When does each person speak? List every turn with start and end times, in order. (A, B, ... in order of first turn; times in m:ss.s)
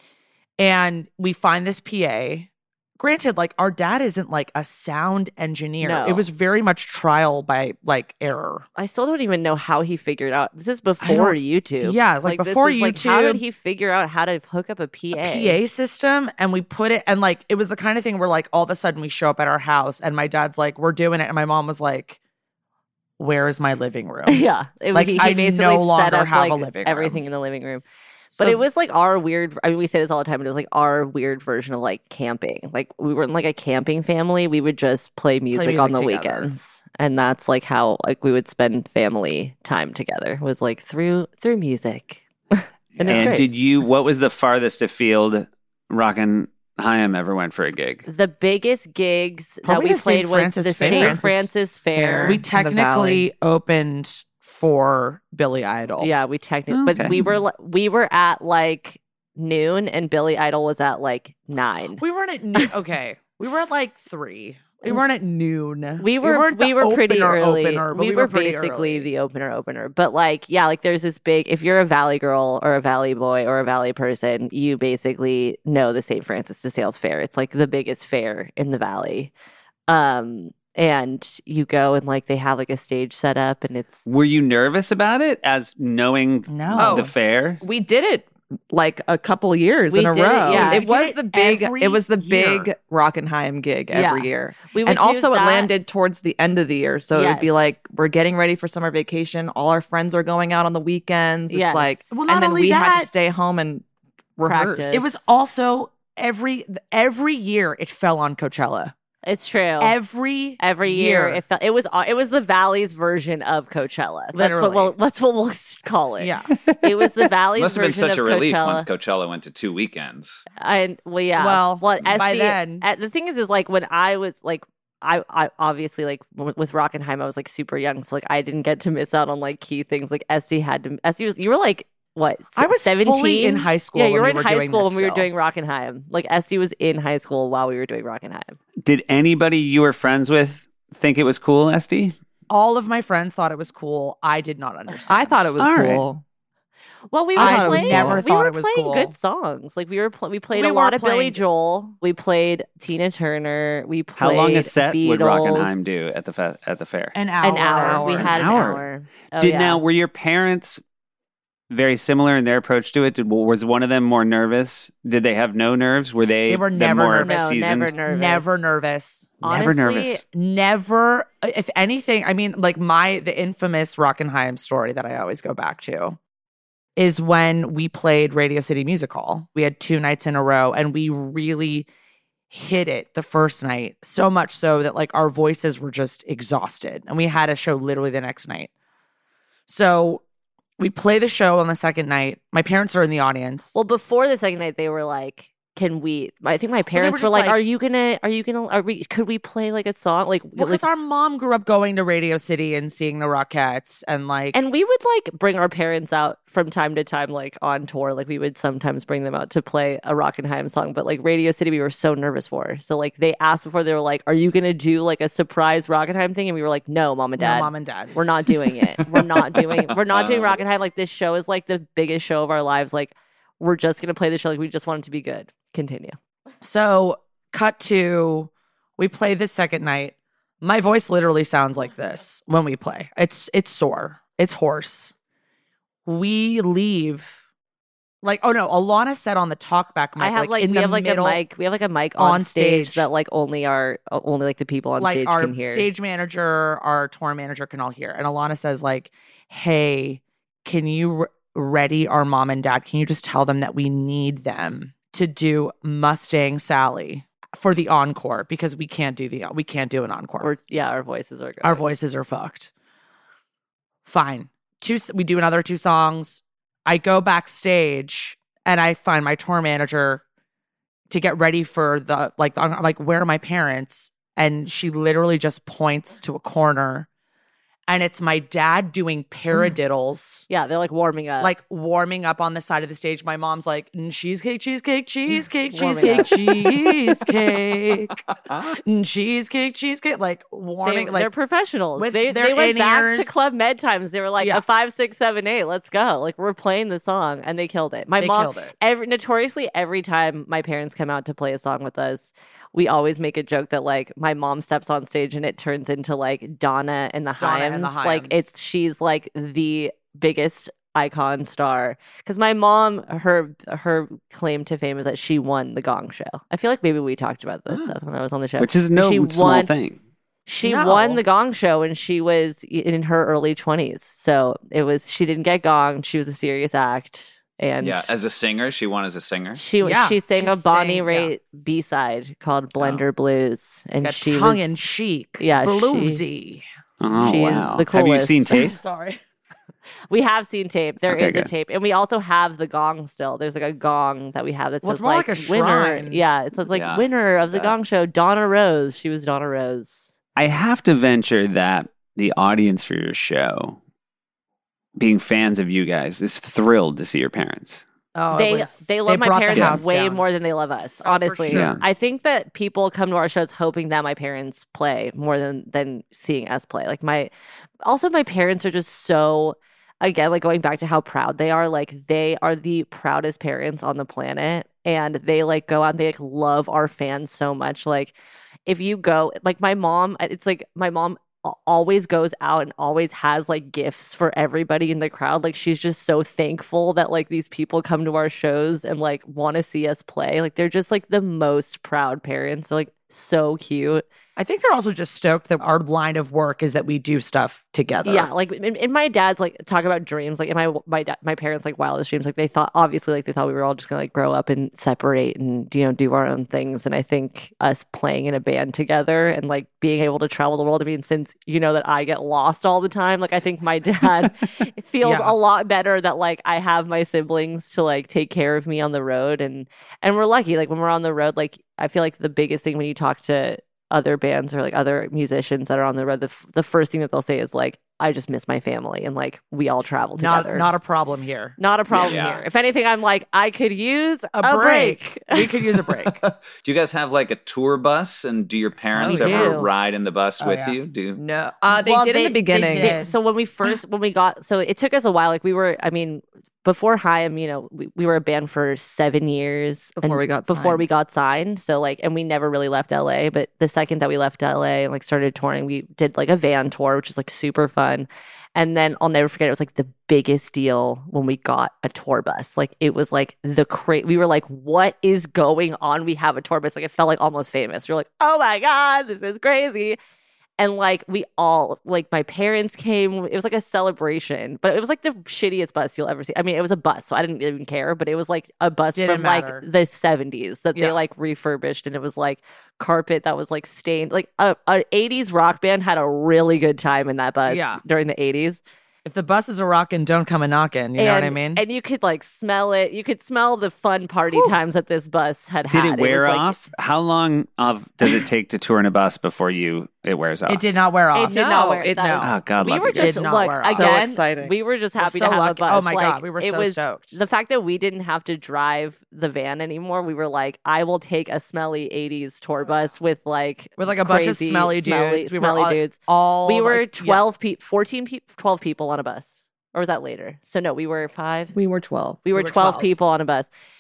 0:00.6-0:08.6 A
0:05.8-0:06.3 B
0:08.8-0:15.6 B
0:11.0-0:13.4 A
0:15.2-0:22.2 A
0:23.2-0:27.2 A
0:24.3-0:27.8 B
0:28.3-0:28.6 A
0:28.4-0:43.5 B
0:35.5-0:36.5 A
0:43.1-0:48.1 C
0:48.1-0:52.4 B
0:49.6-0:51.5 A
0:50.8-0:51.2 D
0:51.9-0:53.3 D
0:52.2-0:56.1 A
0:56.0-1:02.0 B
0:56.7-0:57.3 C
1:02.0-1:09.1 A
1:06.0-1:19.3 B
1:19.9-1:24.0 B
1:24.1-1:27.6 C
1:26.5-1:27.1 A
1:26.8-1:43.8 D
1:29.9-1:30.9 B
1:30.5-1:32.7 A
1:33.9-1:35.7 B
1:37.1-1:37.8 B
1:41.5-1:42.1 B
1:42.1-1:43.1 A
1:44.4-1:45.2 D
1:44.4-1:45.2 B
1:44.9-1:48.9 A
1:49.2-1:50.0 B
1:49.8-1:51.4 A
1:50.6-1:58.9 B
1:54.3-1:55.0 A
1:56.2-1:56.5 A
1:57.6-2:00.4 E
2:00.6-2:18.6 B
2:01.4-2:02.9 A
2:12.6-2:15.3 A
2:18.8-2:22.2 C
2:22.5-2:25.5 A
2:25.1-2:26.2 D
2:25.6-2:26.0 C
2:27.1-2:35.8 B
2:27.4-2:29.1 A
2:27.4-2:28.2 D
2:30.5-2:31.4 A
2:34.2-2:37.2 C
2:37.1-2:38.7 A
2:37.4-2:39.8 B
2:37.8-2:38.8 C
2:39.4-2:40.8 C
2:41.7-2:47.9 C
2:46.5-2:49.6 A
2:47.2-2:48.7 B
2:49.4-2:50.2 C
2:49.4-2:50.2 B
2:50.3-2:56.2 A
2:57.0-3:01.9 A
3:02.5-3:08.7 A
3:09.7-3:10.2 A
3:10.8-3:13.8 A
3:13.8-3:20.8 B
3:16.9-3:17.6 A
3:20.6-3:24.6 A
3:24.5-3:46.2 B
3:37.4-3:38.2 A
3:40.0-3:40.6 E
3:46.6-3:55.1 A
3:56.1-3:57.4 A
3:58.2-4:01.4 A
4:00.2-4:05.9 B
4:02.2-4:03.1 A
4:05.0-4:20.5 A
4:20.4-4:21.9 B
4:21.6-4:22.7 A
4:24.0-4:30.2 A
4:31.1-4:37.1 A
4:37.9-4:40.5 A
4:40.5-4:41.6 B
4:41.4-4:48.2 A
4:45.7-4:46.7 B
4:48.7-4:51.3 A
4:50.8-5:19.7 B
4:52.0-4:53.5 A
4:58.2-4:58.7 A
5:07.4-5:08.4 A
5:18.6-5:20.0 C
5:20.5-5:28.1 B
5:20.6-5:21.2 A
5:27.8-5:29.6 E
5:29.6-5:34.8 B
5:29.8-5:31.3 A
5:34.0-5:36.6 A
5:35.4-5:36.2 B
5:37.0-5:38.8 C
5:37.2-5:38.5 B
5:38.5-5:39.2 A
5:40.1-5:50.1 B
5:41.1-5:41.5 C
5:44.8-5:46.2 A
5:46.7-5:47.7 E
5:50.4-5:53.8 C
5:55.0-5:57.8 C
5:58.2-6:00.2 A
5:58.3-6:07.3 B
6:01.0-6:01.7 A
6:01.5-6:01.8 C
6:07.8-6:18.1 B
6:18.7-6:34.0 B
6:34.4-6:38.3 A
6:38.0-7:10.7 B
6:55.0-6:55.4 A
7:10.2-7:12.2 A
7:11.6-7:15.5 B
7:11.9-7:12.4 E
7:14.3-7:16.2 A
7:16.0-7:21.2 E
7:18.9-7:19.5 A
7:19.0-7:19.5 D
7:19.1-7:19.7 B
7:20.4-7:20.8 A
7:21.2-7:23.0 D
7:21.7-7:50.0 B
7:22.5-7:23.2 A
7:30.0-7:30.9 D
7:50.6-8:08.6 B
7:59.0-7:59.7 A
8:07.5-8:07.8 A
8:09.0-8:11.6 A
8:11.0-8:16.6 B
8:15.7-8:20.6 C
8:20.5-8:21.4 A
8:21.1-8:41.6 B
8:21.3-8:22.3 D
8:22.0-8:22.3 A
8:22.2-8:23.2 C
8:23.0-8:23.9 A
8:23.6-8:24.5 D
8:25.0-8:27.2 A
8:33.8-8:37.2 A
8:41.5-8:42.3 D
8:42.3-8:43.5 B
8:42.3-8:43.0 A